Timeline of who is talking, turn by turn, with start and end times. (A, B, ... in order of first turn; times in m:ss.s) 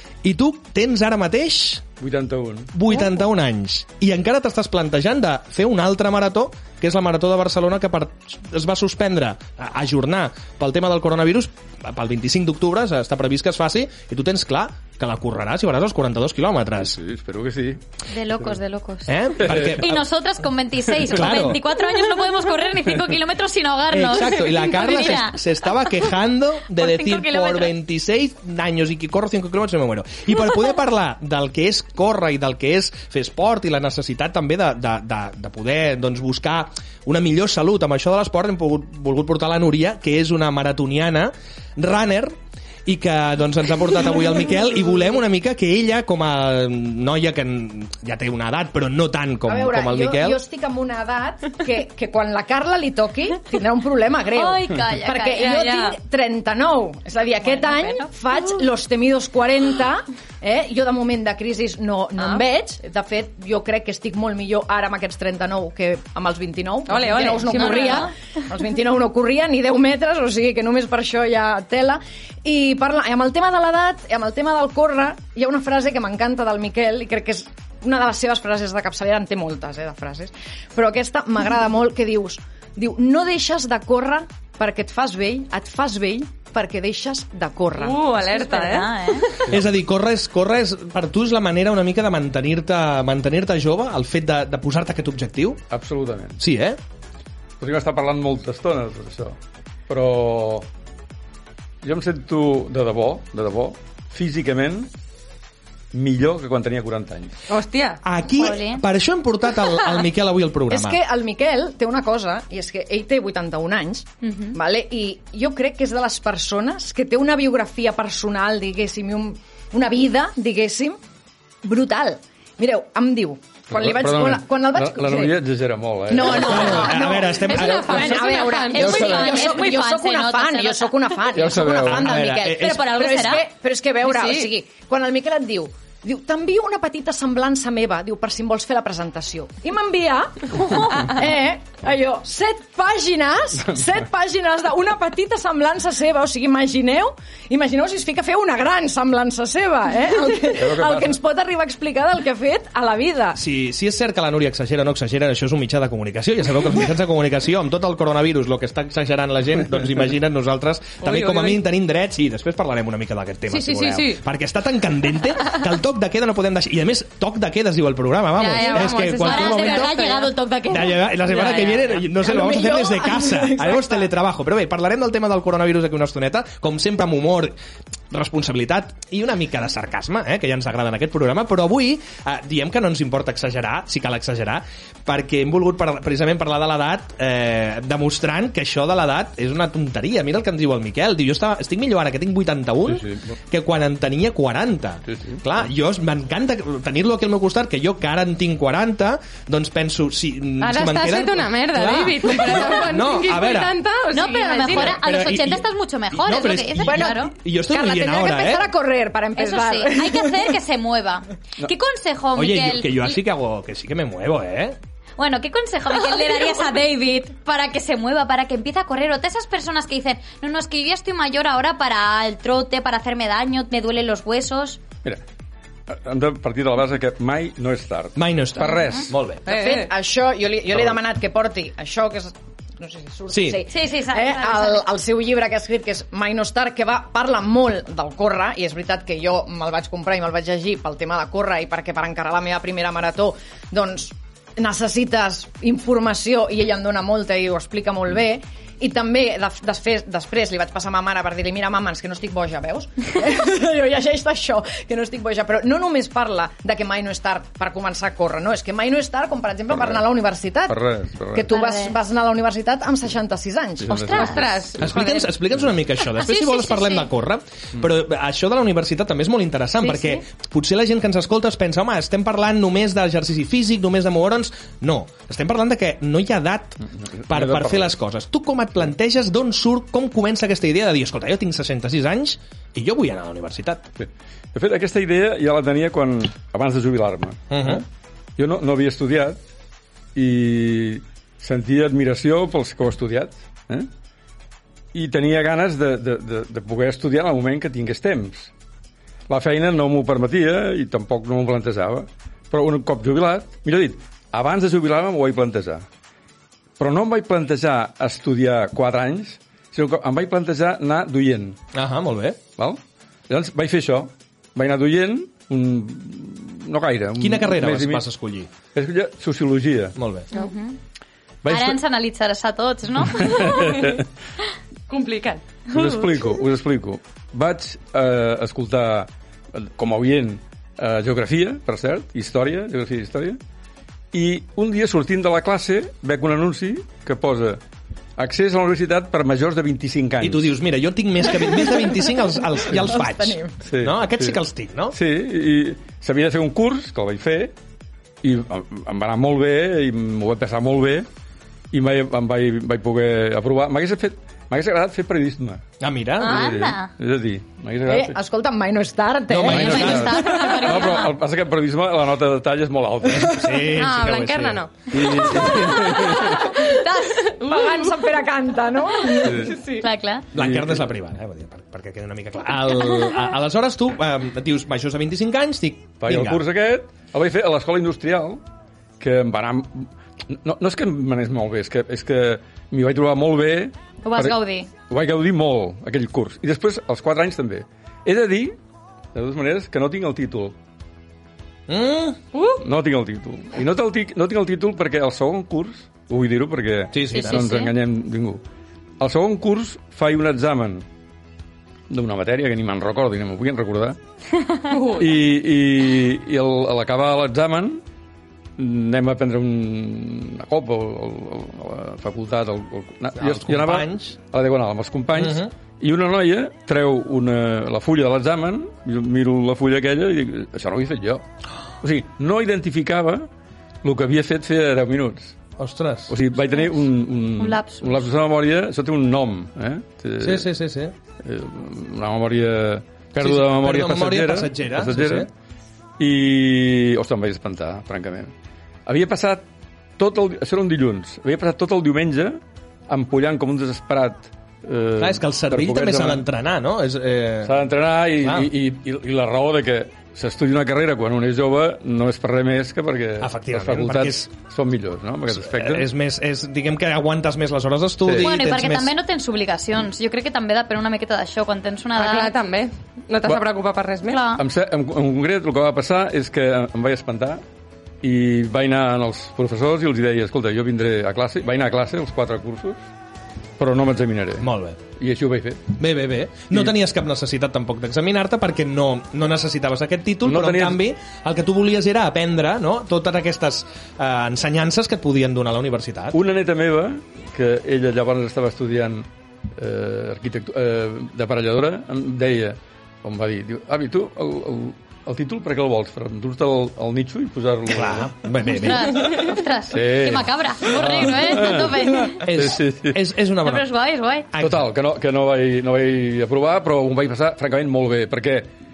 0:00.2-0:01.8 A
0:02.0-0:02.7 B
0:02.7-0:17.0 A
0:16.8-0:17.8 B
0:18.1-0:25.4 C
0:19.1-0:20.0 A
0:19.4-0:19.8 B
0:21.1-0:21.6 A
0:23.9-0:42.3 A
0:26.7-0:27.7 C
0:42.8-0:50.4 A
0:49.4-1:28.0 D
0:54.3-0:55.8 C
0:55.4-0:55.9 E
0:57.4-0:58.1 C
1:06.9-1:08.1 E
1:07.3-1:08.1 C
1:27.8-1:29.4 E
1:28.3-1:29.2 C
1:29.5-1:35.6 A
1:35.7-1:36.4 B
1:36.4-1:36.8 A
1:37.6-1:39.4 B
1:39.9-1:40.6 B
1:41.8-1:44.9 B
1:45.9-1:47.3 B
1:47.5-1:48.0 E
1:48.0-1:51.0 A
1:48.4-1:48.8 C
1:50.7-2:01.0 D
1:54.2-1:54.6 C
2:01.6-2:05.3 D
2:03.7-2:06.9 B
2:06.1-2:33.4 D
2:06.2-2:08.2 A
2:07.4-2:09.7 E
2:07.6-2:11.2 C
2:11.3-2:12.1 B
2:11.8-2:12.8 A
2:12.4-2:13.4 C
2:14.0-2:14.5 E
2:30.6-2:31.2 B
2:33.4-2:50.1 A
2:41.0-2:41.6 E
2:43.5-2:44.2 E
2:48.4-2:50.3 E
2:48.4-2:51.6 C
2:50.7-2:57.6 A
2:51.3-2:51.9 E
2:52.2-2:53.9 D
2:58.1-3:23.8 A
3:12.8-3:13.3 B
3:15.1-3:15.4 B
3:20.6-3:25.0 E
3:24.1-3:27.3 C
3:24.7-3:28.7 A
3:26.8-3:30.5 D
3:29.4-3:33.2 C
3:32.3-3:34.8 A
3:35.2-3:44.8 C
3:45.9-3:49.1 B
3:48.2-3:49.4 A
3:48.6-3:49.1 C
3:49.4-3:49.9 E
3:49.4-4:20.8 D
3:53.3-3:53.6 A
3:53.7-3:54.8 C
4:19.7-4:20.1 B
4:20.7-4:21.5 B
4:21.3-4:24.2 D
4:21.5-4:21.9 C
4:23.8-4:24.5 B
4:23.9-4:24.4 C
4:24.0-4:25.4 E
4:24.8-4:43.9 A
4:26.2-4:27.1 C
4:29.8-4:30.2 C
4:37.2-4:37.9 B
4:44.0-4:47.8 B
4:47.5-4:47.8 A
4:48.4-4:49.4 B
4:50.1-4:53.9 B
4:54.9-4:58.5 B
4:59.3-5:05.8 B
5:06.8-5:11.6 B
5:11.8-5:12.4 A
5:12.6-5:18.0 B
5:17.2-5:18.5 A
5:18.7-5:20.0 B
5:20.0-5:20.3 A
5:20.4-5:20.8 C
5:21.4-5:21.8 B
5:21.5-5:23.7 C
5:23.1-5:24.0 B
5:24.9-5:25.4 E
5:25.7-5:33.4 B
5:34.1-5:37.6 B
5:38.2-5:40.5 B
5:40.2-5:45.0 A
5:41.6-5:41.9 D
5:42.9-5:43.5 D
5:43.6-5:44.4 B
5:44.9-5:47.5 B
5:48.2-5:51.0 B
5:51.7-5:55.6 B
5:55.8-5:56.4 A
5:56.2-5:56.9 C
5:56.2-5:58.2 B
5:57.9-6:00.0 D
5:59.3-6:00.4 A
5:59.4-6:03.5 B
5:59.5-6:01.1 C
6:03.1-6:04.6 A
6:03.7-6:04.9 E
6:04.9-6:06.5 B
6:05.3-6:05.9 A
6:05.6-6:06.8 D
6:07.2-6:08.1 E
6:07.4-6:09.5 D
6:09.2-6:09.6 B
6:09.4-6:09.9 E
6:09.8-6:10.2 C
6:10.4-6:16.4 A
6:10.4-6:10.8 B
6:16.0-6:18.4 B
6:19.0-6:28.6 B
6:24.0-6:24.7 C
6:29.1-6:30.5 B
6:31.7-6:32.2 A
6:32.3-6:32.6 E
6:32.6-6:38.4 B
6:36.9-6:37.4 A
6:37.1-6:37.7 C
6:39.0-6:40.8 B
6:41.9-6:44.0 B
6:44.7-6:45.1 E
6:45.0-6:47.8 B
6:48.6-7:01.2 B
6:53.2-6:54.2 A
6:55.1-6:55.5 A
7:01.8-7:03.3 B
7:03.8-7:05.4 B
7:05.6-7:06.1 A
7:06.1-7:10.5 B
7:07.4-7:07.9 C
7:10.2-7:10.9 A
7:11.2-7:15.3 B
7:13.2-7:15.3 A
7:16.0-7:18.3 B
7:18.9-7:19.4 B
7:20.0-7:22.4 B
7:22.9-7:26.2 B
7:25.0-7:27.6 A
7:27.4-7:35.9 B
7:28.2-7:28.5 A
7:33.2-7:34.3 A
7:35.3-7:38.9 A
7:38.0-7:38.3 B
7:38.2-7:42.3 C
7:42.0-7:44.2 E
7:44.1-7:44.4 C
7:44.4-7:47.4 B
7:48.0-7:52.8 B
7:53.6-7:55.7 B
7:54.4-7:54.8 A
7:55.8-8:06.2 A
8:00.2-8:00.8 B
8:06.1-8:18.1 B
8:17.7-8:19.0 A
8:18.5-8:22.2 C
8:19.7-8:23.0 B
8:22.2-8:23.6 A
8:23.4-8:24.3 C
8:24.3-8:24.6 A
8:24.4-8:28.5 B